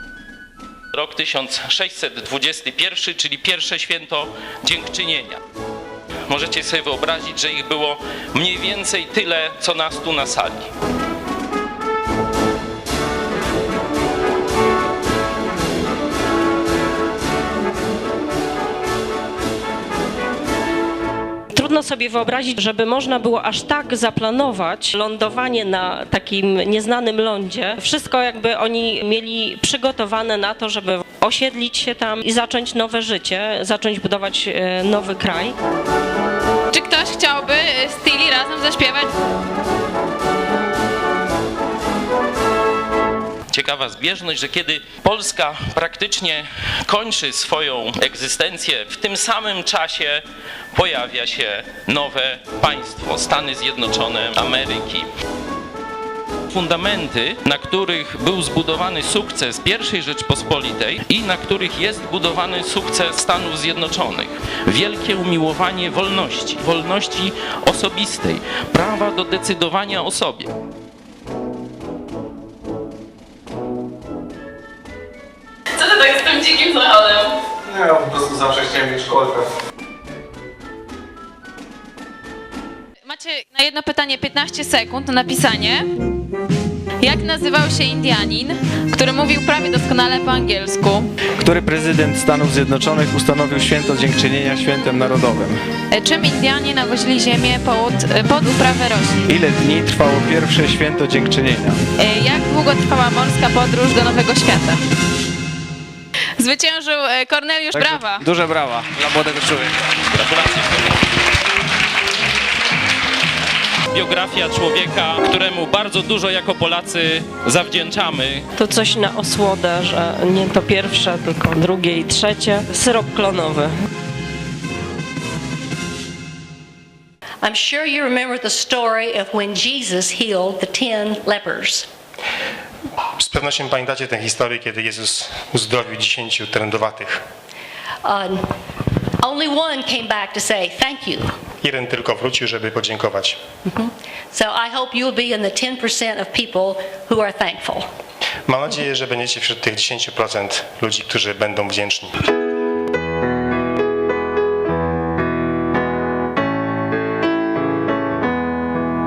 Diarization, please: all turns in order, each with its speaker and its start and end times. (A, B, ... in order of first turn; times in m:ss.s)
0:00.9-0:05.4 A
0:06.3-0:10.7 A
0:21.5-0:35.6 B
0:36.7-0:39.1 C
0:43.5-0:55.1 A
0:56.5-1:10.5 A
1:15.7-1:17.4 C
1:17.7-1:19.5 D
1:23.0-1:25.9 C
1:27.0-1:31.1 C
1:31.4-1:35.6 D
1:35.9-1:39.2 C
1:39.2-1:41.8 D
1:42.0-1:44.8 C
1:46.4-1:48.2 C
1:47.7-1:49.8 D
1:50.1-1:51.0 A
1:53.9-1:58.4 A
1:58.6-2:03.7 B
2:07.4-2:11.9 E
2:13.2-2:17.2 F
2:18.0-2:18.4 E
2:19.2-2:21.3 E
2:21.6-2:23.4 F
2:23.7-2:27.8 E
2:28.5-2:32.2 F